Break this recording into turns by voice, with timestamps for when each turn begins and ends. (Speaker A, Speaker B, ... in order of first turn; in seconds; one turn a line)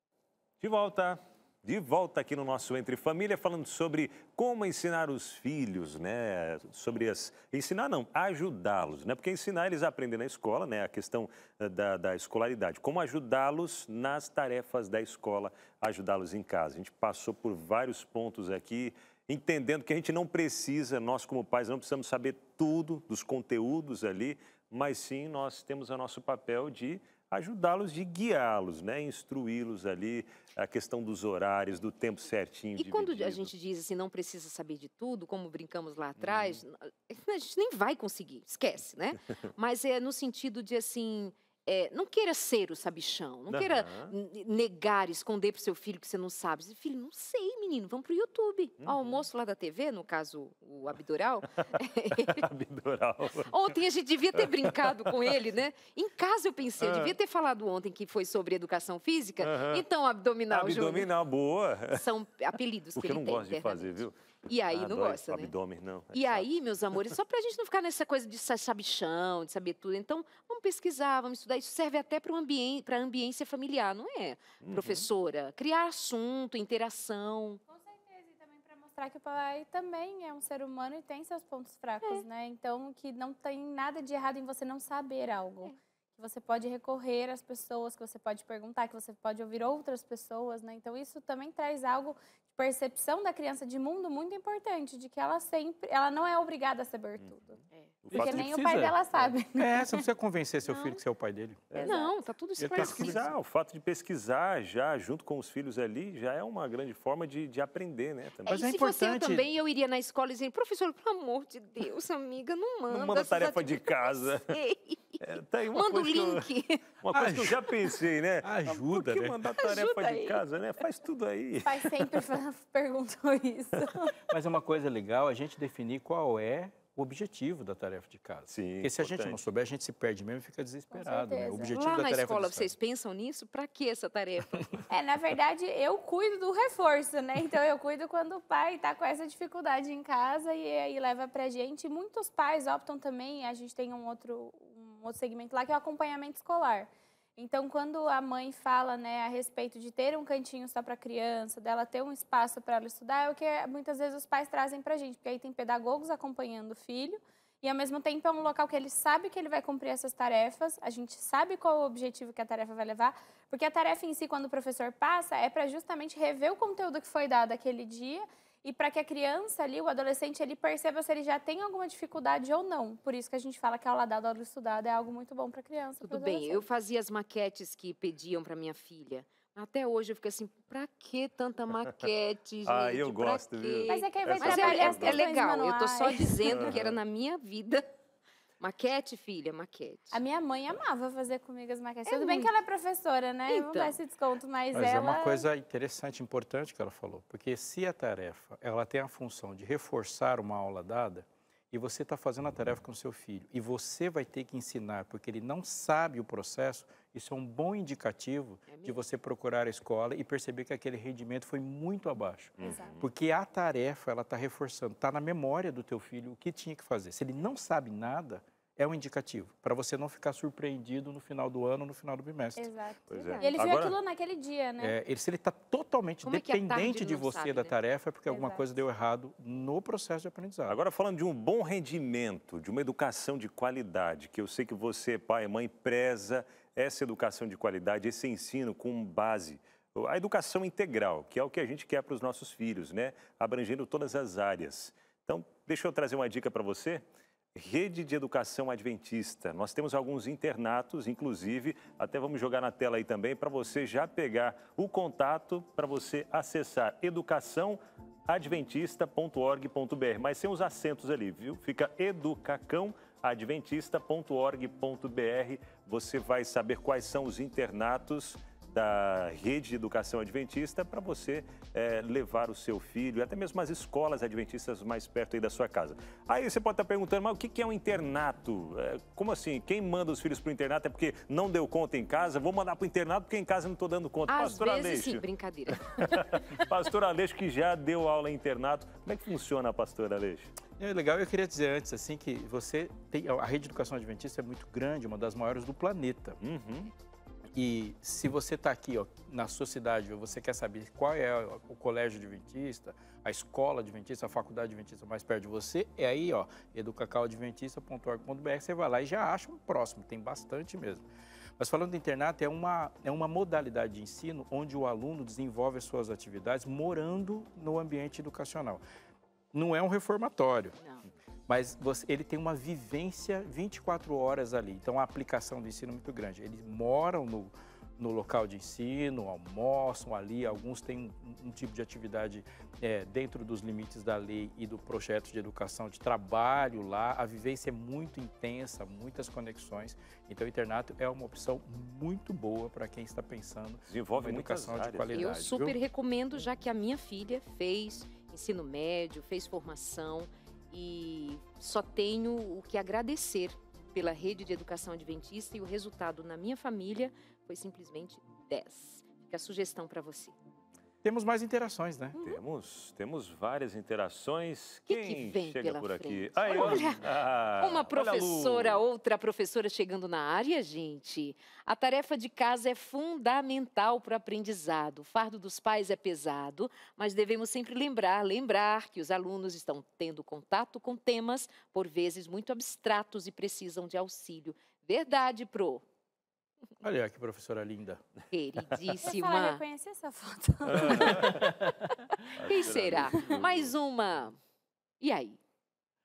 Speaker A: 0.6-33.5
Speaker B: 32.8-52.4
Speaker A: 36.2-36.6
Speaker A: 43.5-44.1
Speaker A: 48.8-49.2
Speaker A: 52.2-53.5
Speaker B: 53.5-61.1
Speaker A: 54.6-55.1
Speaker A: 56.8-57.1
Speaker A: 59.4-59.9
Speaker A: 60.5-62.0
Speaker B: 61.9-65.5
Speaker A: 63.0-64.2
Speaker A: 64.7-66.5
Speaker B: 66.1-77.6
Speaker A: 74.6-75.1
Speaker C: 77.7-97.6
Speaker A: 97.2-97.5
Speaker A: 98.0-99.3
Speaker D: 98.1-99.0
Speaker C: 98.1-100.0
Speaker D: 99.5-101.8
Speaker C: 101.8-102.1
Speaker B: 101.8-103.2
Speaker D: 102.6-103.3
Speaker A: 102.7-108.6
Speaker B: 108.5-115.2
Speaker D: 108.5-109.5
Speaker A: 112.9-114.6
Speaker A: 115.2-116.5
Speaker B: 115.7-116.8
Speaker A: 117.0-122.1
Speaker D: 117.1-117.6
Speaker D: 118.4-119.4
Speaker B: 119.6-120.4
Speaker C: 121.6-124.1
Speaker D: 124.3-132.7
Speaker A: 128.5-129.5
Speaker C: 130.9-131.7
Speaker B: 131.7-134.7
Speaker C: 134.9-176.7
Speaker B: 176.0-187.9
Speaker A: 182.7-185.3
Speaker C: 183.9-186.3
Speaker A: 186.5-187.0
Speaker B: 188.6-190.2
Speaker C: 190.1-195.5
Speaker B: 192.1-192.5
Speaker B: 193.5-194.0
Speaker D: 194.7-222.7
Speaker B: 208.7-209.0
Speaker A: 212.6-213.1
Speaker C: 212.6-213.0
Speaker C: 222.6-225.0
Speaker A: 223.1-224.0
Speaker B: 223.2-223.5
Speaker D: 224.8-230.8
Speaker B: 226.2-227.7
Speaker C: 228.3-228.7
Speaker A: 230.7-247.0
Speaker A: 247.6-285.2
Speaker B: 284.3-285.9
Speaker A: 285.8-290.5
Speaker D: 290.8-296.4
Speaker A: 296.4-296.9
Speaker D: 297.5-311.1
Speaker D: 311.6-318.8
Speaker D: 319.5-320.8
Speaker D: 321.5-345.8
Speaker A: 343.9-345.4
Speaker B: 345.1-360.4
Speaker D: 361.0-362.2
Speaker A: 362.2-368.8
Speaker B: 364.9-367.1
Speaker B: 367.6-385.8
Speaker D: 386.8-388.0
Speaker B: 388.3-389.6
Speaker C: 389.0-391.3
Speaker A: 390.7-391.4
Speaker D: 391.1-391.7
Speaker A: 392.4-393.7
Speaker B: 392.4-394.4
Speaker B: 395.0-395.4